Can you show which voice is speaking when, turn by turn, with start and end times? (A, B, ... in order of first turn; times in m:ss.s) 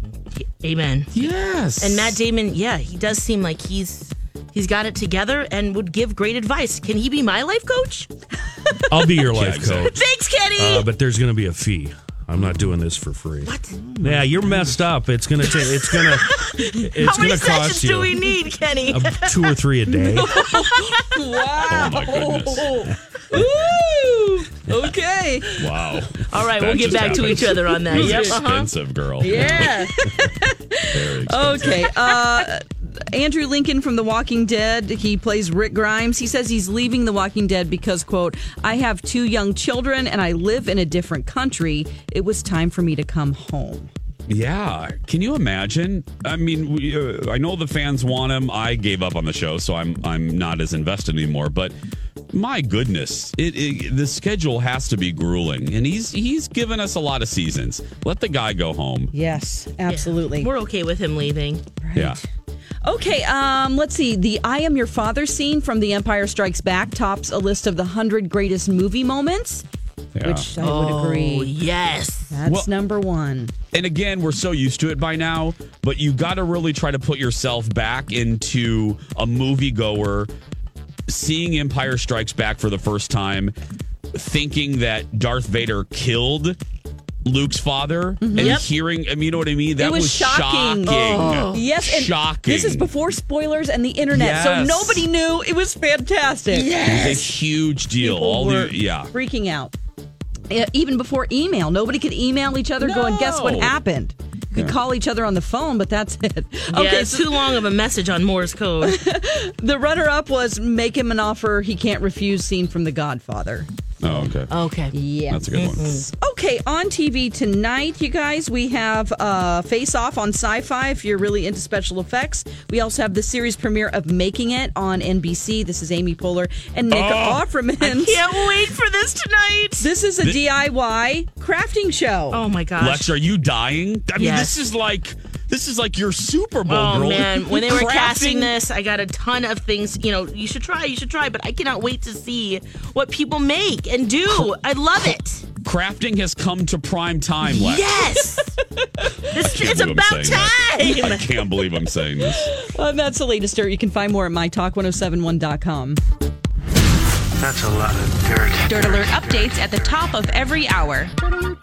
0:00.4-0:01.2 A
0:01.1-0:02.2 B
0:01.8-0:08.1 A
0:08.9-0:10.0 C
0:09.3-0:10.0 B
0:09.9-0:10.9 A
0:10.6-0:18.2 C
0:13.4-0:13.8 A
0:14.0-0:14.7 D
0:15.6-0:19.6 A
0:18.8-0:20.4 C
0:20.0-0:26.0 D
0:20.3-0:21.1 A
0:21.7-0:22.7 B
0:25.6-0:29.8 B
0:26.3-0:30.0 A
0:27.9-0:28.3 D
0:29.3-0:43.9 D
0:30.9-0:31.9 B
0:44.3-0:51.8 B
0:52.3-0:59.1 B
0:59.1-1:00.5 D
0:59.9-1:01.6 A
1:01.8-1:02.2 D
1:02.8-1:09.6 D
1:10.2-1:10.5 B
1:10.2-1:11.5 D
1:10.6-1:12.3 A
1:12.3-1:13.5 D
1:12.5-1:12.7 B
1:13.7-1:20.3 B
1:21.1-1:23.6 B
1:24.1-1:26.6 B
1:27.2-1:32.9 B
1:28.2-1:28.6 D
1:28.4-1:28.7 A
1:29.8-1:36.7 D
1:30.8-1:31.6 A
1:34.1-1:35.1 B
1:36.5-1:37.3 A
1:36.8-1:39.1 B
1:38.0-1:39.7 D
1:40.5-1:47.6 D
1:42.8-1:43.2 A
1:42.9-1:43.8 B
1:46.7-1:49.0 A
1:48.8-1:54.3 D
1:54.0-1:54.5 B
1:54.5-1:55.0 A
1:54.9-2:08.6 D
1:55.3-1:56.0 B
1:55.5-1:56.1 A
2:06.9-2:07.5 B
2:07.8-2:09.9 A
2:09.8-2:12.4 D
2:12.3-2:13.1 A
2:12.8-2:18.5 B
2:14.2-2:14.6 A
2:16.7-2:25.4 A
2:25.6-2:28.0 B
2:27.4-2:28.5 A
2:29.0-2:29.3 D
2:29.3-2:31.2 A
2:29.4-2:32.5 B
2:32.2-2:36.0 D
2:37.4-2:40.5 E
2:38.7-2:41.1 F